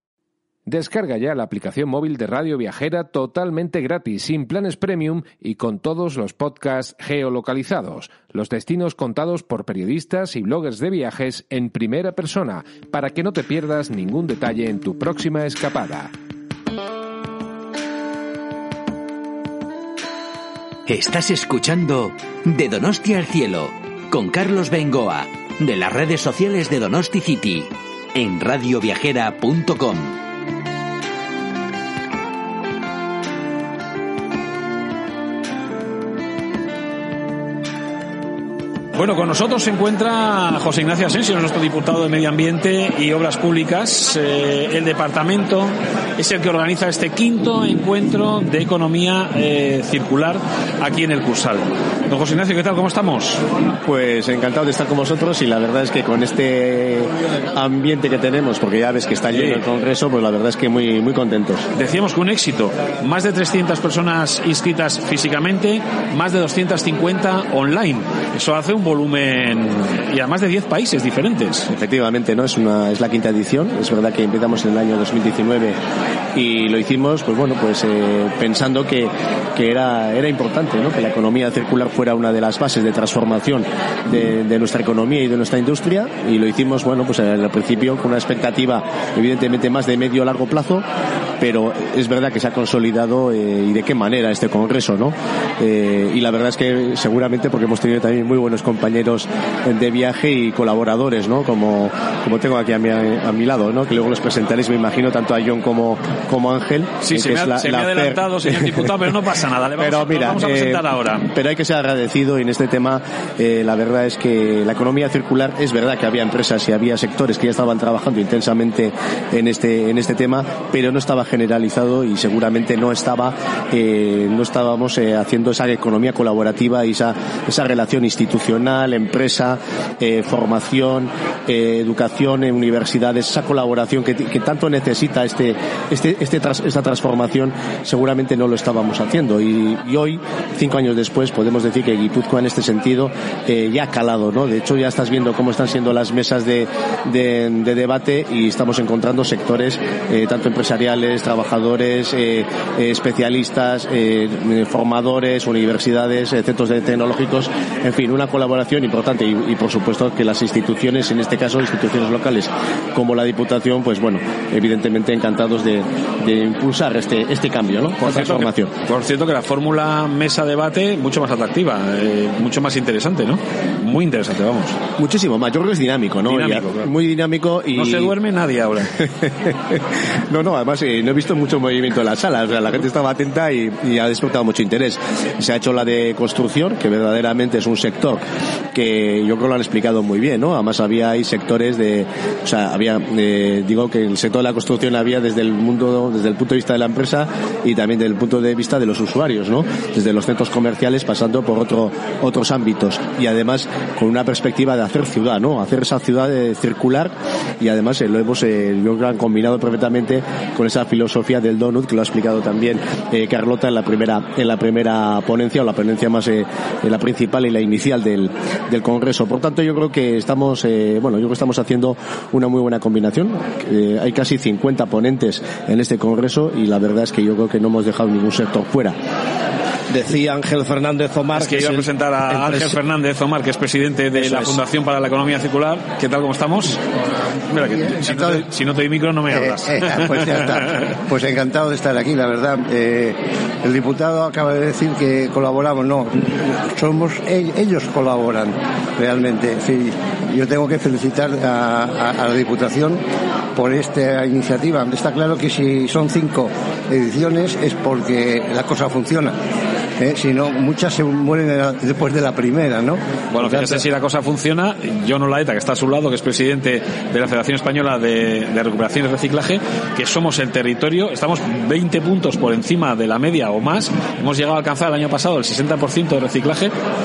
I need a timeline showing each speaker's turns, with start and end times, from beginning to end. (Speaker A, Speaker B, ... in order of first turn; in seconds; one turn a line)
Speaker A: 0.7-16.1
Speaker B: 20.9-30.2
Speaker C: 39.0-53.4
Speaker D: 53.8-61.7
Speaker C: 59.3-59.6
Speaker C: 61.7-71.7
Speaker D: 71.7-75.8
Speaker D: 76.3-90.8
Speaker D: 91.4-108.9
Speaker C: 107.0-111.3
Speaker D: 109.8-168.7
Speaker C: 168.0-174.8
Speaker D: 175.0-178.1
Speaker C: 176.2-176.9
Speaker C: 177.7-178.9
Speaker D: 179.0-228.9
Speaker E: 229.9-232.8
Speaker C: 231.3-236.8
Speaker E: 234.2-234.6
Speaker C: 237.5-240.1
Speaker F: 237.6-238.4
Speaker F: 239.3-253.0
Speaker F: 253.6-259.4
Speaker F: 260.0-263.8
Speaker C: 263.3-276.7